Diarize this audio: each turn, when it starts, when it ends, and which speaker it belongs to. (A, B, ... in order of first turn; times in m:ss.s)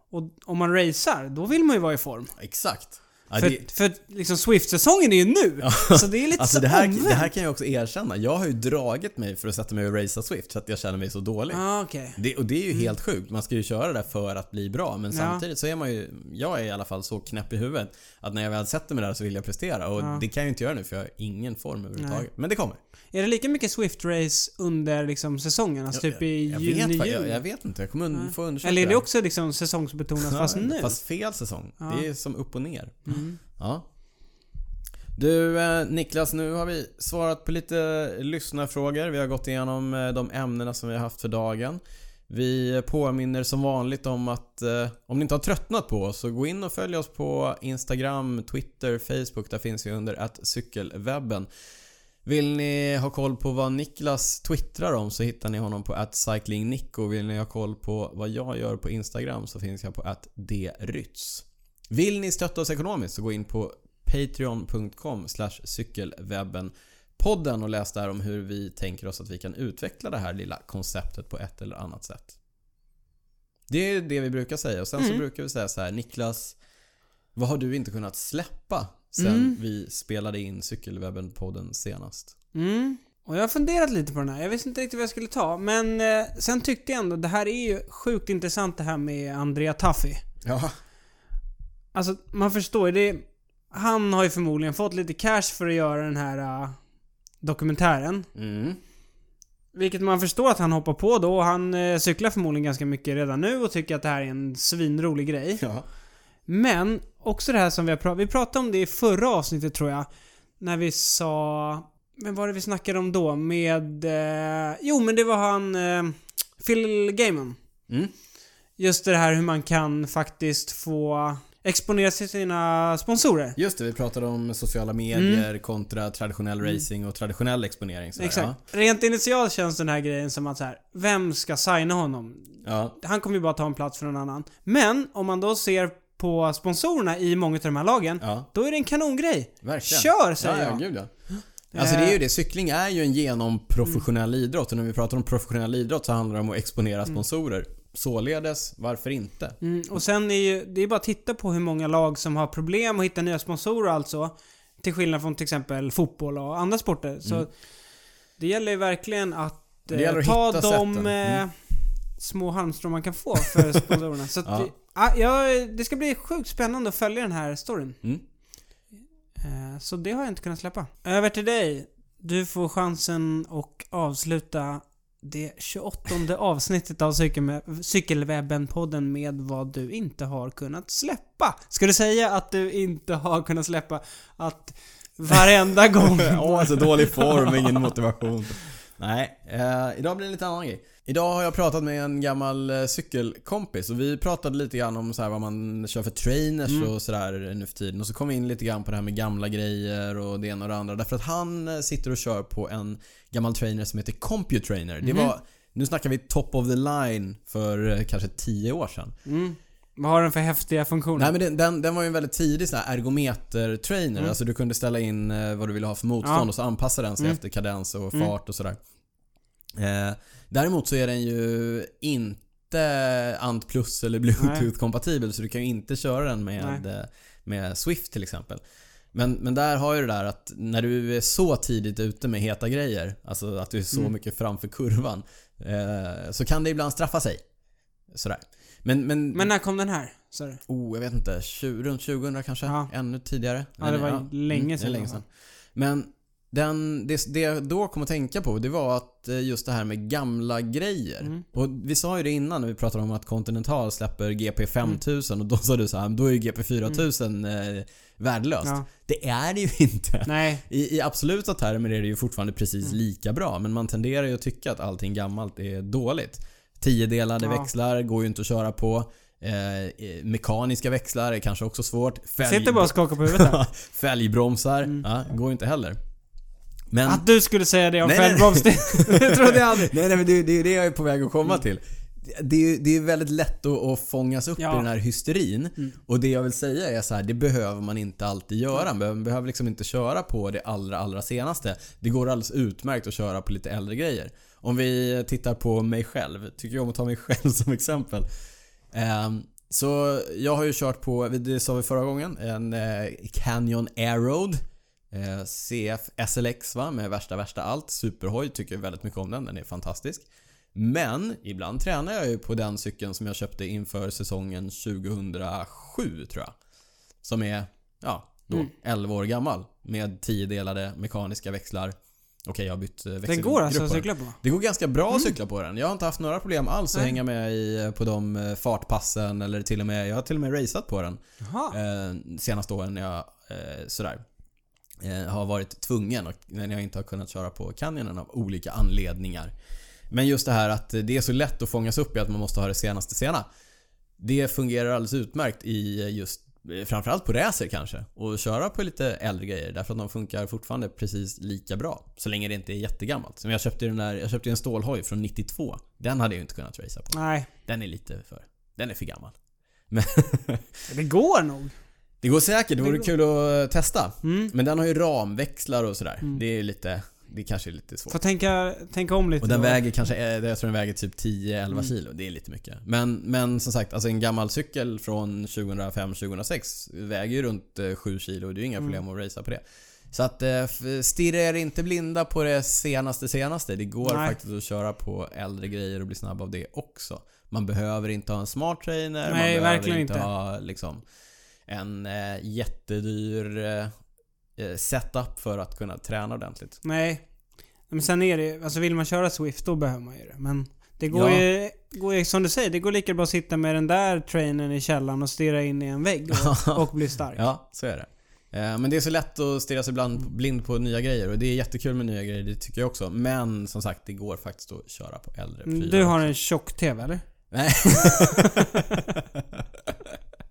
0:00.1-0:02.3 A
0:02.4-0:03.6 B
0:03.4-0:07.3 A
0:05.6-0:11.6 B
0:11.5-0:12.2 A
0:12.2-0:22.8 B
0:15.1-0:15.4 A
0:20.0-0:20.2 A
0:22.0-0:22.2 A
0:23.1-0:27.4 A
0:25.9-0:29.0 B
0:28.1-0:31.0 A
0:30.2-0:33.8 B
0:33.1-0:33.4 A
0:35.2-0:51.5 B
0:52.2-1:12.3 B
1:13.7-1:16.6 B
1:15.0-1:15.2 A
1:17.3-1:22.3 B
1:19.2-1:19.6 A
1:22.5-1:30.2 A
1:30.4-1:30.7 B
1:31.9-1:36.8 A
1:37.4-1:38.3 A
1:38.3-1:38.8 B
1:39.7-1:45.6 A
1:45.6-1:45.8 B
1:46.5-1:50.1 A
1:50.6-1:57.6 A
1:58.8-2:03.6 A
2:03.6-2:08.6 B
2:05.1-2:05.4 A
2:08.2-2:20.8 A
2:12.6-2:13.0 B
2:18.2-2:18.5 B
2:19.6-2:21.1 B
2:21.7-2:22.2 A
2:21.7-2:29.6 B
2:29.6-2:37.5 A
2:38.4-2:41.5 A
2:39.9-2:41.4 B
2:42.2-2:48.0 A
2:43.5-2:44.7 B
2:49.4-3:07.8 A
3:06.0-3:29.1 B
3:25.0-3:25.3 A
3:29.2-3:31.3 A
3:31.2-3:38.8 B
3:36.2-3:36.5 A
3:39.8-3:48.6 B
3:44.4-3:44.7 A
3:49.1-3:57.4 B
3:58.1-3:59.5 B
3:59.3-4:00.6 A
4:00.7-4:36.0 B
4:03.8-4:05.2 A
4:20.2-4:20.6 A
4:32.4-4:33.6 A
4:36.9-4:37.2 B
4:37.1-4:39.9 A
4:38.0-4:58.3 B
4:44.6-4:44.9 A
4:58.9-5:16.5 B
5:17.2-5:21.9 B
5:22.4-5:31.2 B
5:23.3-5:24.4 A
5:31.4-5:31.8 A
5:31.7-5:34.2 B
5:35.0-5:39.5 B
5:40.1-5:43.4 B
5:44.2-5:57.1 B
5:57.1-5:57.5 A
5:57.6-5:59.3 B
5:59.9-6:00.7 B
6:00.9-6:01.7 A
6:02.2-6:08.2 B
6:02.8-6:03.1 A
6:04.2-6:04.5 A
6:08.1-6:09.8 A
6:09.4-6:31.0 B
6:24.0-6:24.3 A
6:29.2-6:30.3 A
6:31.7-6:33.9 B
6:34.6-6:36.8 B
6:36.8-6:37.2 A
6:37.9-6:47.4 A
6:41.1-6:41.4 B
6:46.3-6:56.3 B
6:55.6-6:57.2 A
6:57.5-7:00.2 B
6:57.9-6:59.0 A